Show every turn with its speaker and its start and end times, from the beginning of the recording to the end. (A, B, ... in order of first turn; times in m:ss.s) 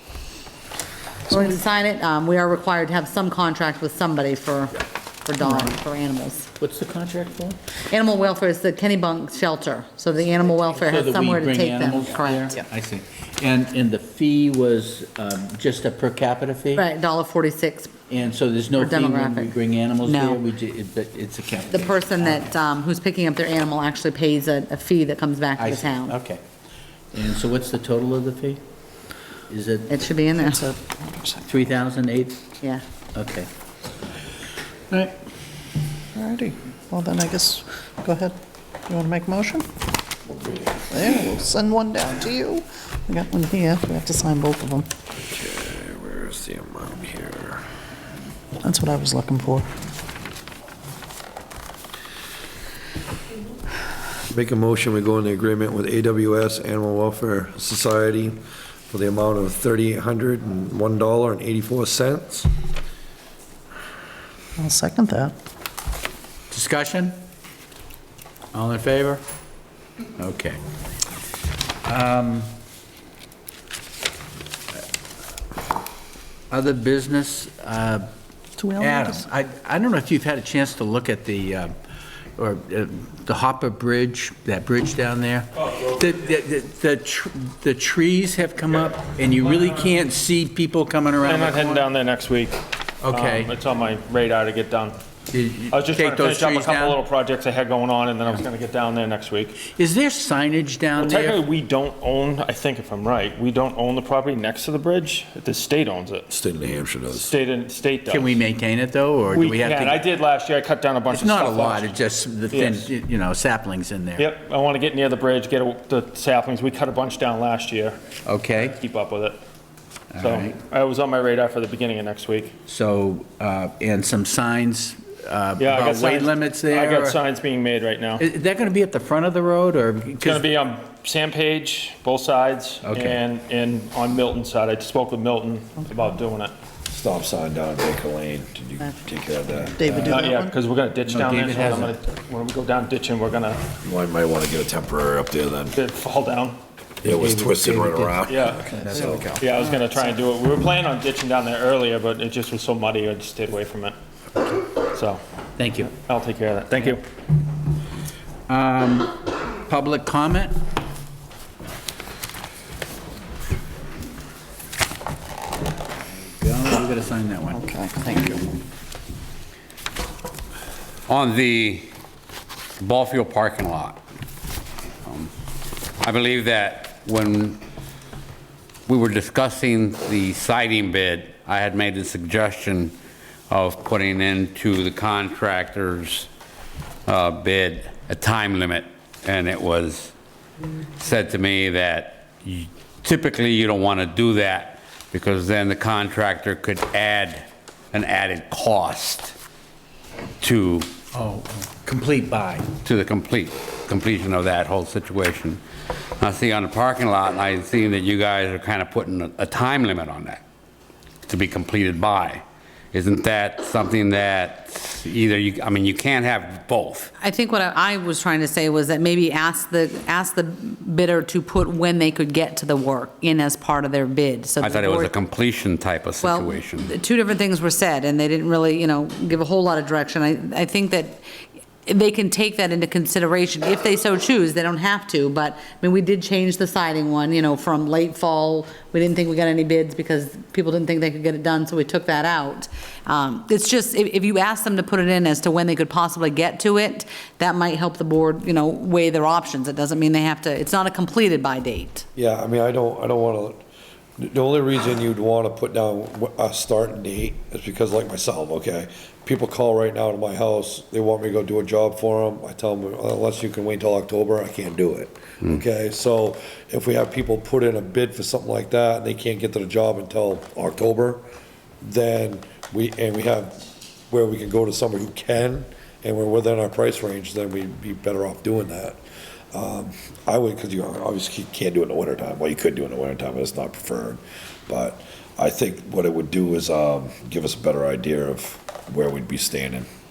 0:01.3-0:06.5 A
0:06.6-0:07.6 B
0:07.9-0:12.6 A
0:10.8-0:16.8 B
0:16.8-0:17.9 A
0:18.1-0:22.5 B
0:18.8-0:20.4 A
0:21.7-0:26.2 A
0:25.6-0:26.4 B
0:27.1-0:28.6 B
0:29.5-0:29.9 B
0:29.9-0:30.6 A
0:30.4-0:31.4 C
0:31.5-0:32.4 B
0:33.1-0:33.5 B
0:34.9-0:35.2 B
0:36.2-0:38.4 C
0:38.9-0:39.7 C
0:40.4-0:40.8 D
0:40.9-0:44.9 C
0:45.2-0:47.6 D
0:48.6-0:49.7 C
0:54.3-0:58.4 D
0:58.9-1:02.5 D
1:04.6-1:05.4 C
1:06.5-1:07.2 B
1:08.5-1:09.2 B
1:10.2-1:10.6 B
1:11.8-1:12.5 B
1:16.5-1:18.1 B
1:18.6-1:19.2 C
1:18.8-1:21.7 B
1:22.4-1:31.9 B
1:31.2-1:32.5 E
1:33.0-1:33.6 B
1:33.1-1:35.0 E
1:35.3-1:37.0 B
1:35.7-1:39.6 E
1:39.6-1:41.4 B
1:41.0-1:46.4 E
1:46.3-1:47.3 D
1:47.1-1:48.4 E
1:48.1-1:50.1 B
1:49.3-1:52.0 E
1:51.1-1:54.3 B
1:52.5-1:52.9 E
1:54.2-1:58.0 E
1:58.2-1:58.8 B
1:58.8-1:59.4 E
2:00.1-2:00.6 B
2:00.2-2:02.5 E
2:02.7-2:07.2 B
2:05.6-2:08.2 E
2:08.2-2:10.5 B
2:10.2-2:16.5 E
2:12.8-2:13.2 B
2:16.9-2:19.9 D
2:19.8-2:20.5 C
2:20.1-2:23.6 E
2:21.1-2:22.0 B
2:23.8-2:25.8 D
2:25.8-2:26.6 E
2:27.0-2:29.2 B
2:27.0-2:29.3 D
2:28.3-2:28.6 E
2:28.7-2:29.4 C
2:29.4-2:34.0 E
2:34.8-2:35.2 E
2:35.6-2:36.0 B
2:36.0-2:37.0 E
2:38.5-2:40.6 B
2:46.1-2:47.6 B
2:47.5-2:48.6 C
2:51.1-2:51.9 F
2:52.8-2:54.0 F
2:55.0-2:55.3 F
2:56.0-2:57.6 F
2:58.9-3:03.0 F
3:03.5-3:06.3 F
3:07.1-3:10.1 F
3:11.0-3:19.3 F
3:20.4-3:20.9 F
3:21.1-3:22.8 B
3:22.8-3:25.6 F
3:26.2-3:30.4 F
3:31.3-3:37.1 F
3:37.2-3:45.1 A
3:44.6-3:46.9 F
3:46.2-3:51.2 A
3:51.9-4:12.0 A
4:12.2-4:13.6 D
4:14.2-4:31.2 D
4:31.8-4:33.6 D
4:34.1-4:39.0 D
4:39.5-4:49.9 D